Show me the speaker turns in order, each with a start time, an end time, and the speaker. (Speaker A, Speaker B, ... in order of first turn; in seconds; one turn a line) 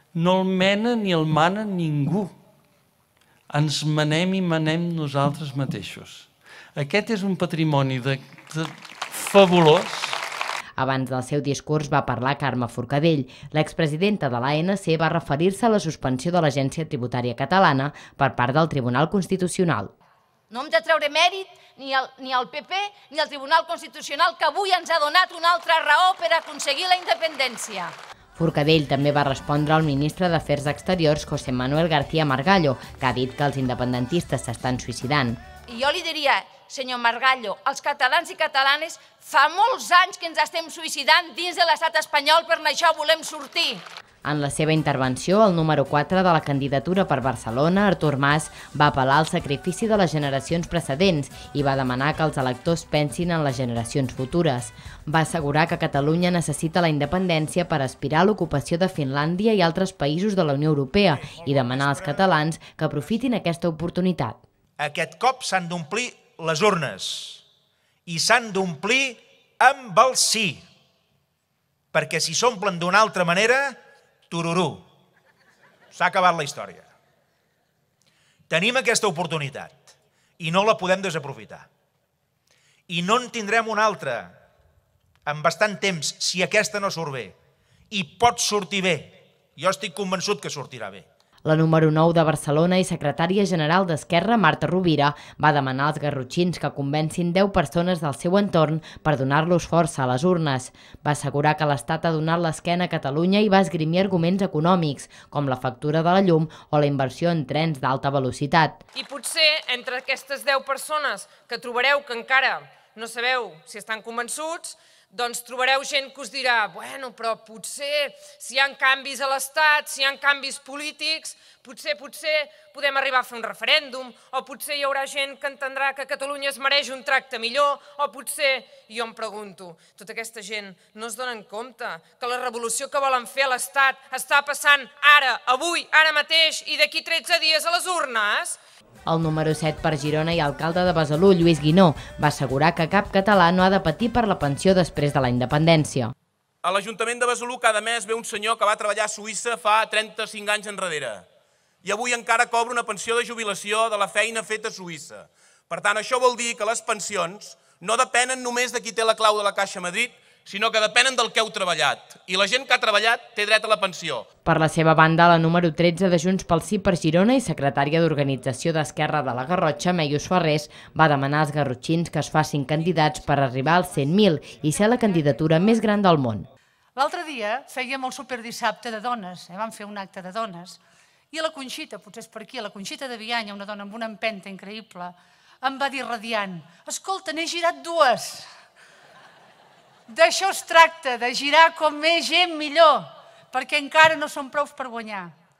Speaker A: 0.1-2.3
Speaker A: 3.5-10.2
Speaker B: 10.8-19.9
Speaker C: 20.5-27.9
Speaker B: 28.4-35.4
Speaker C: 35.7-43.8
Speaker B: 44.2-64.4
Speaker D: 61.1-62.3
Speaker D: 64.8-67.4
Speaker D: 68.0-70.6
Speaker D: 71.9-74.8
Speaker D: 75.9-76.9
Speaker D: 78.5-79.8
Speaker D: 80.4-81.7
Speaker D: 82.9-84.4
Speaker D: 85.2-87.3
Speaker D: 87.9-91.0
Speaker B: 91.4-108.8
Speaker E: 108.9-138.6
Speaker B: 139.1-146.1
Speaker F: 146.6-151.2
Speaker F: 151.8-164.2
Speaker B: 164.4-176.5
Speaker G: 176.9-180.8
Speaker G: 181.3-188.5
Speaker G: 190.1-195.3